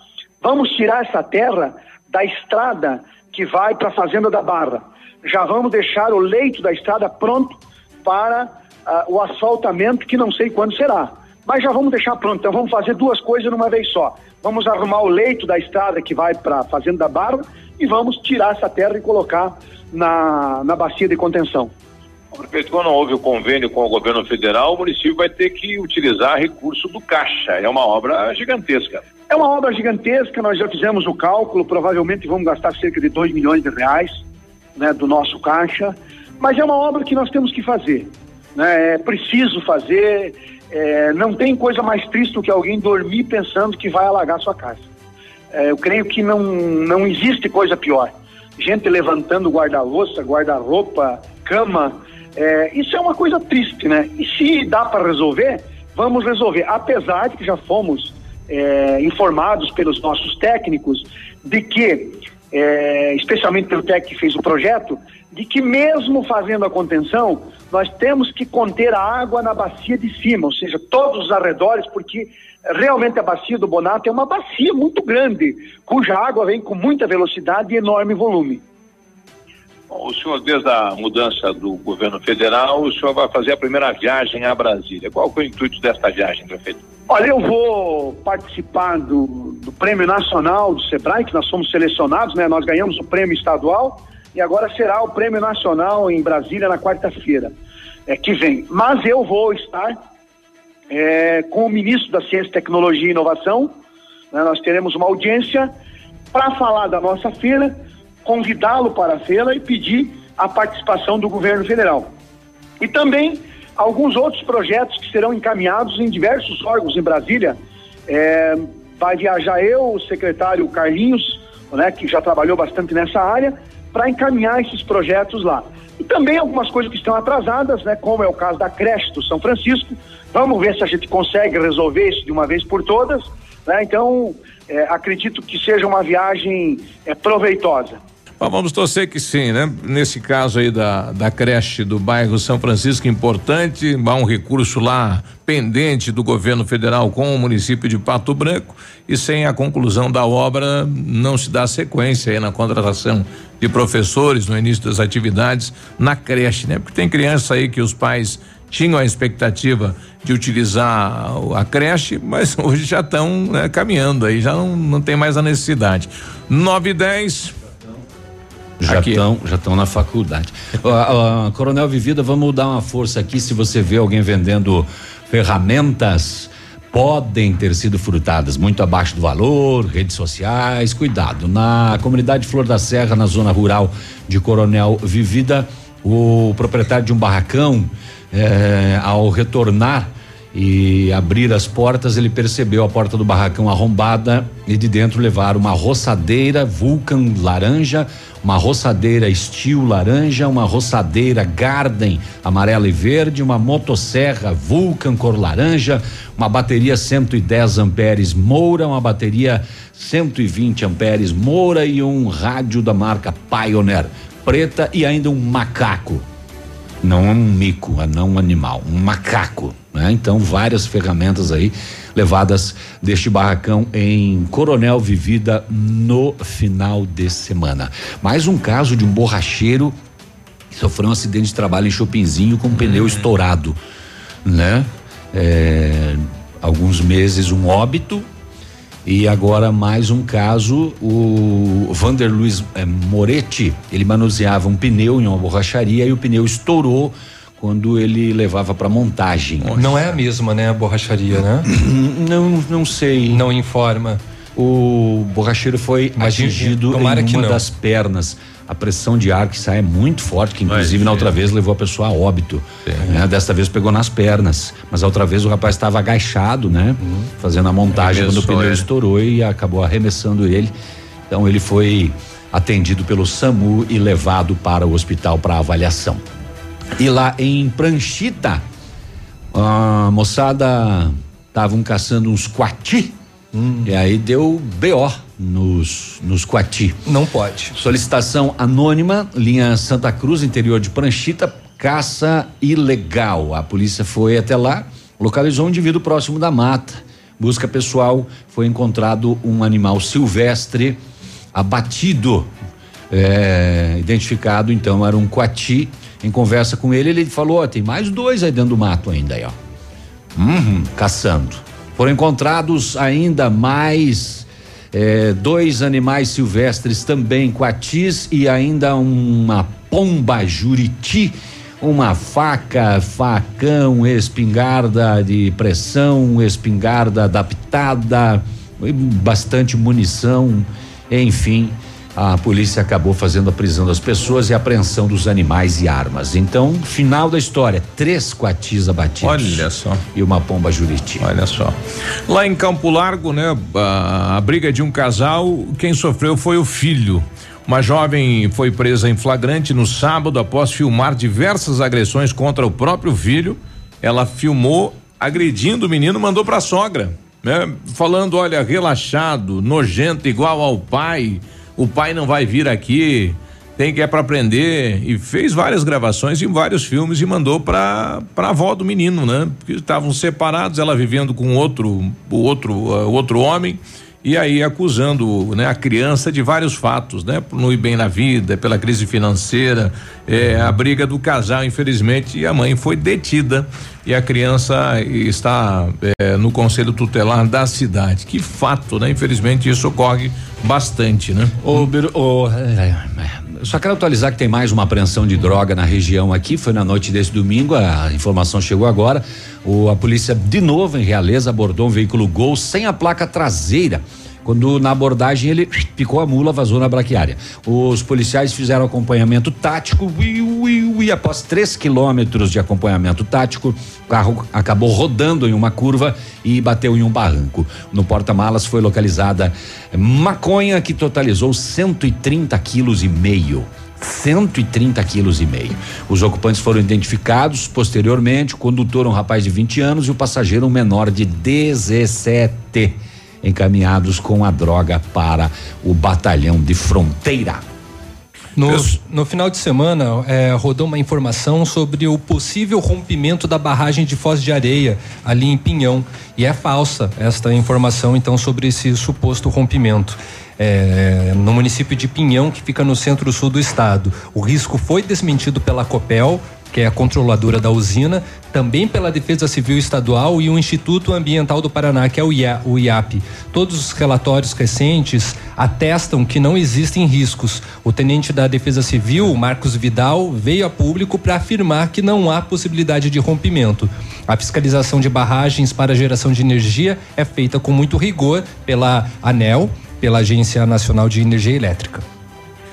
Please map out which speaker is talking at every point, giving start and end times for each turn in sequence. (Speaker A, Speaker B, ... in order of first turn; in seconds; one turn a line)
Speaker A: 0.4-21.7
Speaker B: 22.5-29.0
Speaker A: 29.3-34.2
Speaker A: 34.8-44.9
Speaker A: 45.5-78.6
Speaker B: 80.0-86.7
Speaker A: 87.1-97.5
Speaker A: 98.1-100.0
Speaker A: 100.9-103.7
Speaker A: 104.3-105.7
Speaker A: 106.3-107.7
Speaker A: 108.2-112.1
Speaker A: 112.8-117.6
Speaker A: 118.1-138.0
Speaker C: 138.4-167.5
Speaker D: 168.8-216.2
Speaker C: 168.9-169.2
Speaker D: 217.0-230.0
Speaker D: 230.7-233.8
Speaker C: 232.9-233.2
Speaker D: 234.4-238.3
Speaker D: 239.1-249.8
Speaker C: 249.6-250.1
Speaker E: 249.8-251.7
Speaker D: 251.7-253.4
Speaker E: 253.3-254.2
Speaker D: 254.6-270.7
Speaker E: 256.2-257.6
Speaker C: 260.7-261.3
Speaker C: 267.9-268.9
Speaker D: 271.3-276.3
Speaker D: 277.0-278.6
Speaker D: 279.5-283.1
Speaker E: 283.5-283.9
Speaker D: 283.9-287.0
Speaker E: 287.1-287.8
Speaker D: 287.7-301.0
Speaker D: 301.5-302.5
Speaker D: 303.1-309.6
Speaker D: 310.4-341.3
Speaker C: 339.2-340.0
Speaker C: 341.2-391.8
Speaker D: 391.6-437.6
Speaker E: 438.6-482.1